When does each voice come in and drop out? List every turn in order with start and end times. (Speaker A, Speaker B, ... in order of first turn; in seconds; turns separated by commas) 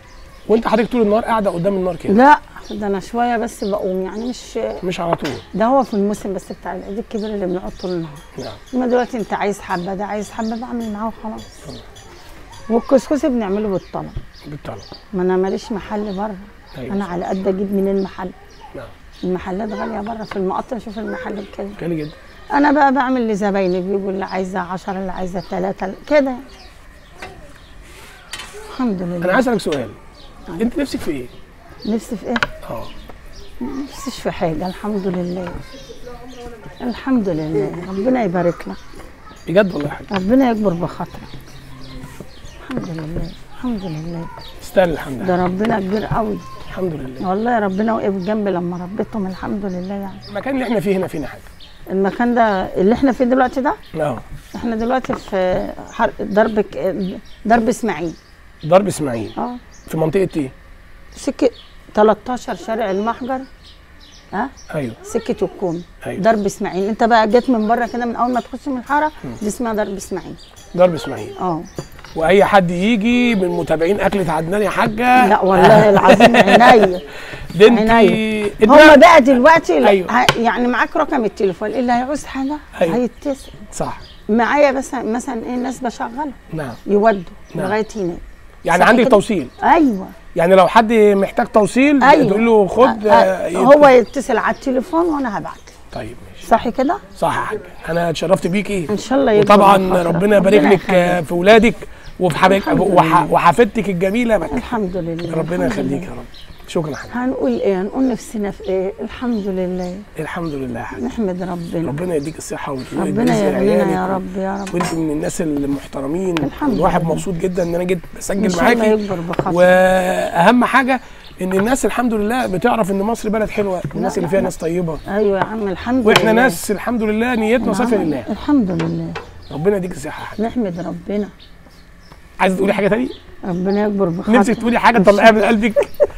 Speaker A: 0.5-2.2, Speaker B: 2.1-4.8, Speaker A: 4.8-5.4, Speaker B: 5.5-11.5, Speaker B: 12.7-14.2, Speaker A: 14.5-14.9, Speaker B: 15.1-18.4, Speaker A: 16.7-17.0, Speaker B: 19.2-21.8, Speaker A: 21.8-22.1, Speaker B: 22.5-26.4, Speaker B: 28.7-29.5, Speaker A: 29.2-30.0, Speaker A: 30.6-31.3, Speaker B: 31.9-32.5, Speaker A: 32.6-32.9, Speaker B: 33.6-35.6, Speaker B: 36.8-38.8, Speaker A: 39.5-40.1, Speaker B: 40.1-41.3, Speaker B: 42.6-44.3, Speaker A: 44.6-45.3, Speaker B: 45.2-46.5, Speaker A: 46.7-47.2, Speaker B: 47.2-50.2, Speaker A: 50.3-51.5, Speaker B: 51.9-53.8, Speaker A: 53.9-54.2, Speaker B: 54.5-58.2, Speaker A: 58.6-59.3, Speaker A: 59.9-60.5, Speaker B: 61.2-63.5, Speaker A: 64.7-65.0, Speaker B: 65.0-70.4, Speaker A: 70.7-71.3, Speaker B: 71.4-71.7, Speaker A: 72.2-76.9, Speaker B: 75.2-77.1, Speaker A: 77.5-79.0, Speaker B: 77.6-83.7, Speaker A: 79.8-80.1, Speaker A: 83.7-84.0, Speaker B: 84.3-90.1, Speaker A: 86.5-86.8, Speaker A: 88.6-89.5, Speaker A: 90.3-93.9, Speaker B: 92.0-95.7, Speaker A: 95.9-96.4, Speaker B: 96.4-97.0, Speaker A: 97.2-104.7, Speaker B: 98.9-101.2, Speaker B: 102.4-103.3, Speaker B: 104.5-106.1, Speaker A: 105.3-107.1, Speaker B: 107.1-110.1, Speaker A: 110.2-111.0, Speaker B: 111.0-112.0, Speaker A: 111.8-114.2, Speaker B: 112.9-114.8, Speaker A: 114.7-125.0, Speaker B: 116.4-117.3, Speaker B: 118.4-119.8, Speaker B: 123.9-124.5, Speaker B: 125.1-126.6, Speaker A: 126.0-128.3, Speaker B: 127.6-129.2, Speaker A: 129.5-130.4, Speaker B: 130.4-131.3, Speaker A: 132.4-133.2, Speaker B: 133.4-135.9, Speaker A: 134.3-135.9